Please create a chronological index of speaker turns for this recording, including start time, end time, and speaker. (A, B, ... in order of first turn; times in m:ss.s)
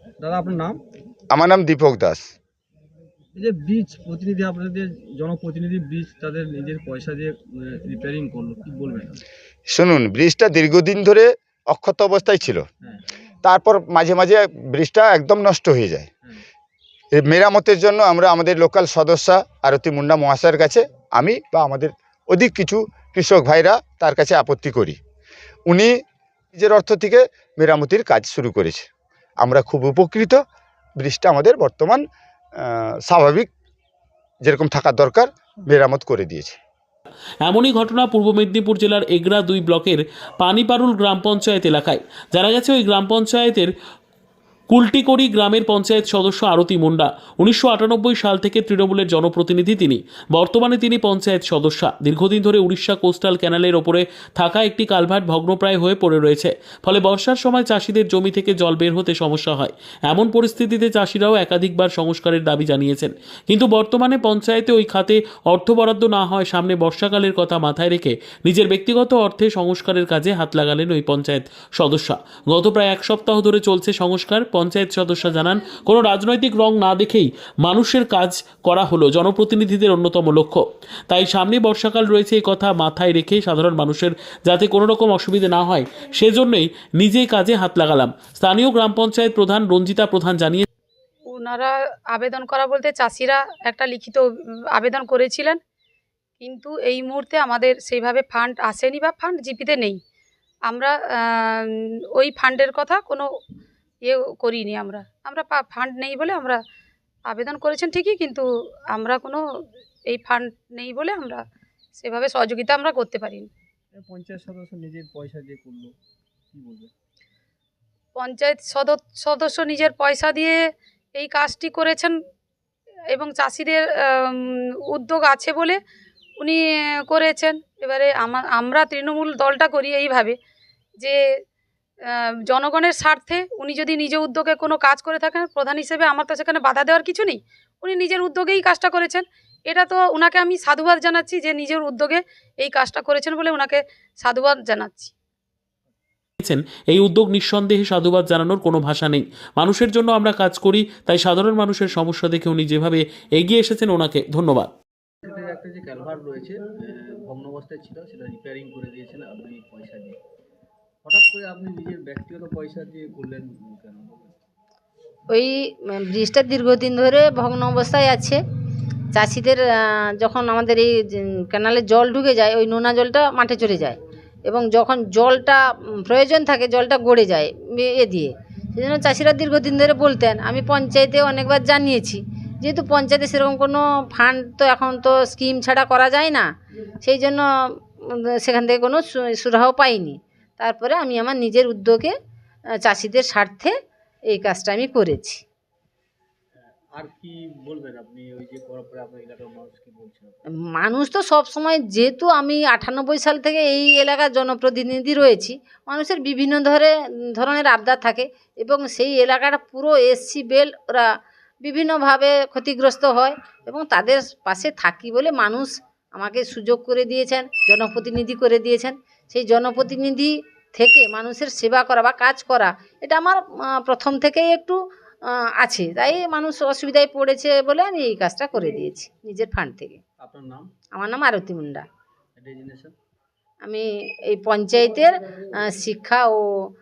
0:00.2-0:00.8 A
0:01.3-0:02.2 B
0:03.4-0:09.2 A
0:09.7-0:12.6 B
0:13.4-0:16.1 B
0:17.1-0:25.0 B
0:25.7-0:26.0 B
0:26.5-0:28.9 B
0:29.4-0:30.4 B
0:31.0-0:32.0 B
0:32.6-0:33.5 B
0:34.4-0:36.6 B
0:37.4-0:43.7 C
0:44.7-1:30.6 C
1:31.3-1:35.6 D
1:36.4-1:40.0 D
1:40.7-1:43.3 D
1:44.0-1:46.6 D
1:47.3-1:49.4 D
1:50.1-1:51.4 D
1:52.0-1:53.5 D
1:53.9-1:55.9 A
1:56.5-1:56.9 A
1:58.2-2:00.6 D
2:01.1-2:02.1 D
2:03.1-2:05.8 D
2:06.4-2:10.4 D
2:12.0-2:25.1 D
2:26.4-2:34.7 C
2:35.2-2:40.2 A
2:41.0-2:44.3 A
2:45.3-2:48.4 E
2:49.1-3:06.4 E
3:07.0-3:07.4 E
3:08.0-3:12.1 E
3:12.8-3:13.7 E
3:14.3-3:15.4 E
3:16.6-3:20.4 A
3:20.7-3:31.0 E
3:31.6-3:44.8 E
3:45.6-3:50.0 E
3:50.2-3:50.7 A
3:50.9-3:51.8 E
3:52.4-3:52.9 A
3:53.6-3:55.1 E
3:55.6-3:56.4 E